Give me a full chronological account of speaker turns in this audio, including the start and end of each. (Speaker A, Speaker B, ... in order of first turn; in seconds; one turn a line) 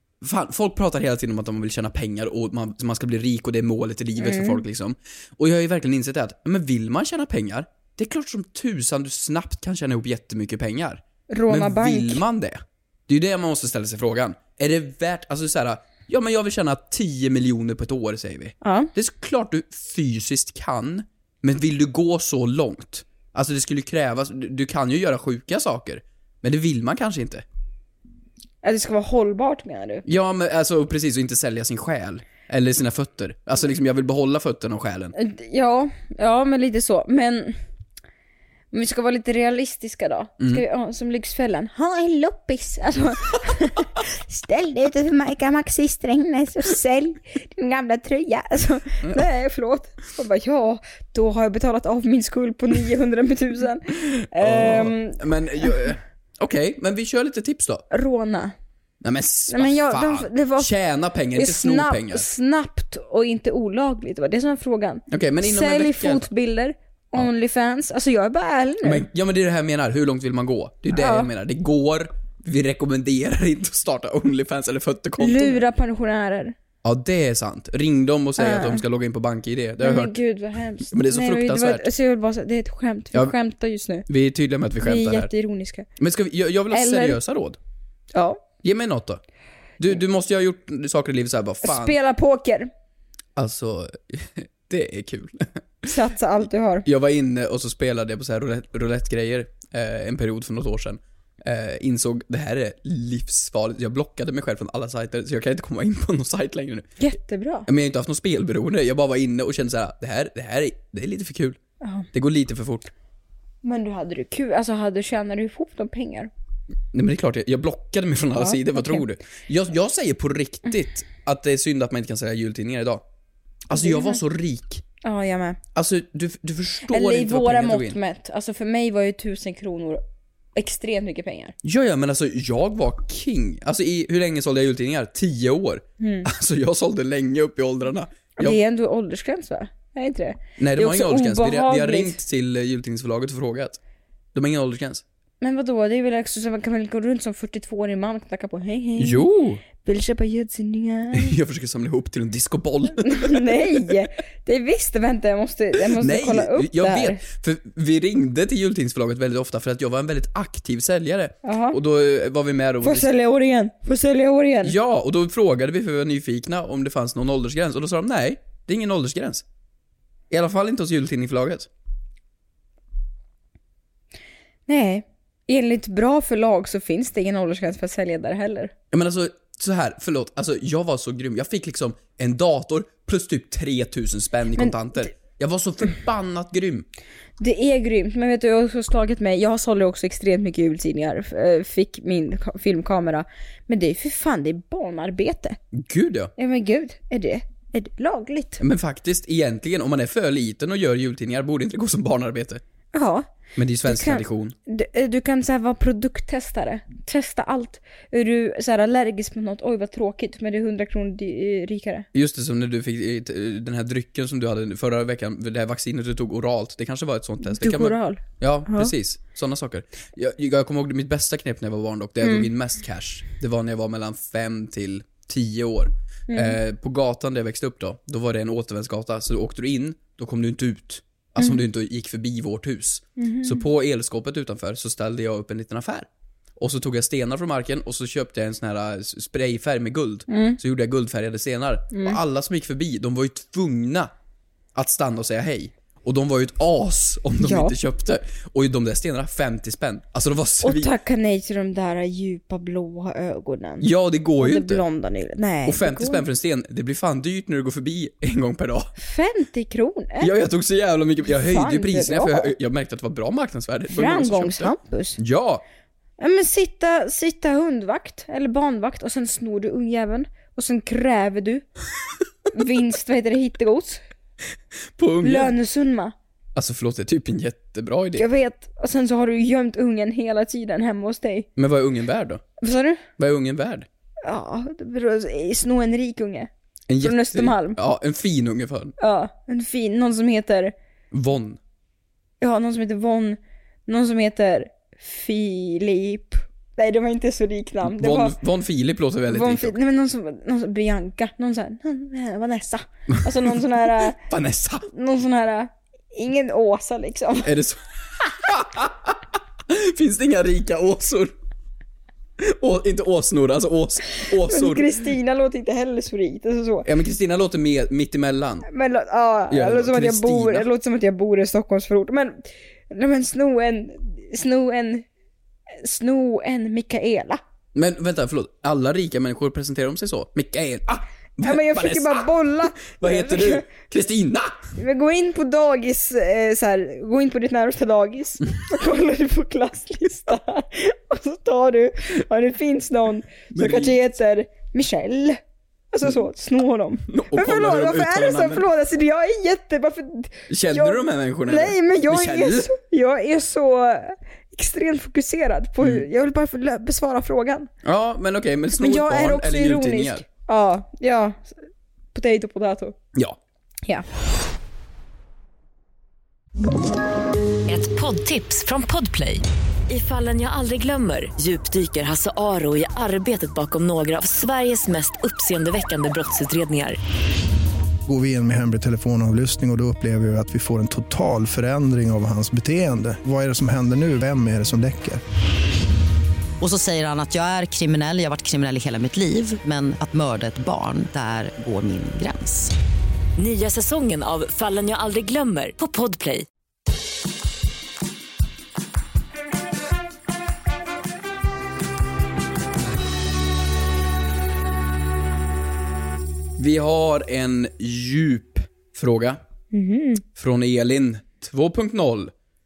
Speaker A: 0.2-27.4
Speaker B: 4.2-4.6
Speaker B: 11.3-12.2
Speaker B: 18.6-18.9
Speaker B: 28.6-30.0
Speaker A: 30.1-35.1
Speaker B: 35.1-37.5
Speaker B: 38.7-55.7
Speaker A: 53.9-57.8
Speaker B: 57.9-58.5
Speaker A: 59.0-62.2
Speaker B: 59.5-60.7
Speaker B: 61.4-69.0
Speaker A: 65.1-66.2
Speaker A: 68.8-75.6
Speaker B: 70.9-71.3
Speaker B: 75.2-76.5
Speaker A: 76.8-80.2
Speaker B: 78.4-78.8
Speaker B: 79.8-84.1
Speaker A: 80.9-81.9
Speaker A: 84.1-85.3
Speaker B: 84.8-85.8
Speaker A: 86.0-87.6
Speaker B: 86.7-87.2
Speaker B: 88.1-88.4
Speaker A: 88.6-89.2
Speaker A: 89.8-92.0
Speaker B: 91.6-92.7
Speaker A: 93.3-95.9
Speaker B: 95.8-96.8
Speaker A: 96.8-107.0
Speaker B: 107.0-107.7
Speaker A: 107.7-111.6
Speaker A: 112.1-112.9
Speaker B: 113.6-116.3
Speaker A: 116.9-123.0
Speaker B: 118.3-119.0
Speaker A: 123.7-124.8
Speaker B: 123.7-124.2
Speaker B: 125.0-125.6
Speaker A: 125.7-128.0
Speaker B: 126.9-130.0
Speaker B: 130.6-131.5
Speaker A: 131.6-138.6
Speaker B: 136.0-136.3
Speaker B: 138.4-142.2
Speaker A: 140.6-143.8
Speaker A: 144.3-145.0
Speaker B: 145.4-151.3
Speaker A: 149.0-149.6
Speaker A: 151.1-153.8
Speaker B: 153.0-157.2
Speaker A: 155.9-163.1
Speaker B: 161.4-161.8
Speaker B: 162.8-164.7
Speaker A: 164.6-169.4
Speaker A: 170.3-171.7
Speaker B: 174.7-178.7
Speaker A: 178.9-186.8
Speaker B: 184.6-185.0
Speaker B: 187.4-195.6
Speaker A: 195.7-196.3
Speaker B: 196.4-198.6
Speaker A: 198.6-202.6
Speaker B: 202.9-203.3
Speaker A: 203.6-204.5
Speaker B: 203.8-212.1
Speaker A: 212.1-236.1
Speaker B: 217.5-218.9
Speaker B: 222.2-222.5
Speaker B: 226.3-226.6
Speaker B: 233.2-233.6
Speaker A: 236.6-244.1
Speaker B: 240.3-240.6
Speaker B: 241.9-242.2
Speaker A: 244.7-250.9
Speaker B: 247.4-247.7
Speaker B: 250.6-253.9
Speaker A: 253.8-254.8
Speaker B: 254.4-256.2
Speaker A: 255.6-258.9
Speaker B: 259.0-260.3
Speaker A: 260.2-265.6
Speaker B: 261.3-262.5
Speaker B: 263.9-265.2
Speaker B: 266.2-271.6
Speaker B: 272.5-274.0
Speaker A: 275.0-275.5
Speaker B: 275.2-276.1
Speaker A: 276.5-278.2
Speaker B: 278.1-281.5
Speaker A: 281.6-282.4
Speaker B: 282.6-283.0
Speaker A: 283.2-283.9
Speaker B: 284.2-286.5
Speaker A: 286.9-288.9
Speaker B: 287.0-287.8
Speaker B: 289.0-290.7
Speaker A: 291.1-291.6
Speaker B: 292.4-298.3
Speaker A: 297.8-299.8
Speaker B: 299.3-304.2
Speaker A: 304.1-304.9
Speaker B: 304.9-307.5
Speaker A: 307.4-307.8
Speaker A: 308.3-311.3
Speaker A: 312.4-315.0
Speaker B: 314.4-316.9
Speaker A: 316.8-318.7
Speaker B: 318.7-325.1
Speaker A: 319.5-320.6
Speaker B: 325.8-327.4
Speaker A: 327.7-334.6
Speaker B: 331.4-333.7
Speaker B: 334.8-345.4
Speaker A: 343.5-344.0
Speaker B: 345.9-357.7
Speaker A: 347.1-348.6
Speaker A: 350.5-352.7
Speaker A: 357.8-360.2
Speaker B: 358.7-361.6
Speaker B: 362.1-362.9
Speaker C: 367.7-377.0
Speaker D: 378.1-385.2
Speaker E: 386.6-392.7
Speaker C: 393.4-396.4
Speaker A: 406.6-409.4
Speaker B: 409.7-410.2
Speaker A: 410.4-412.3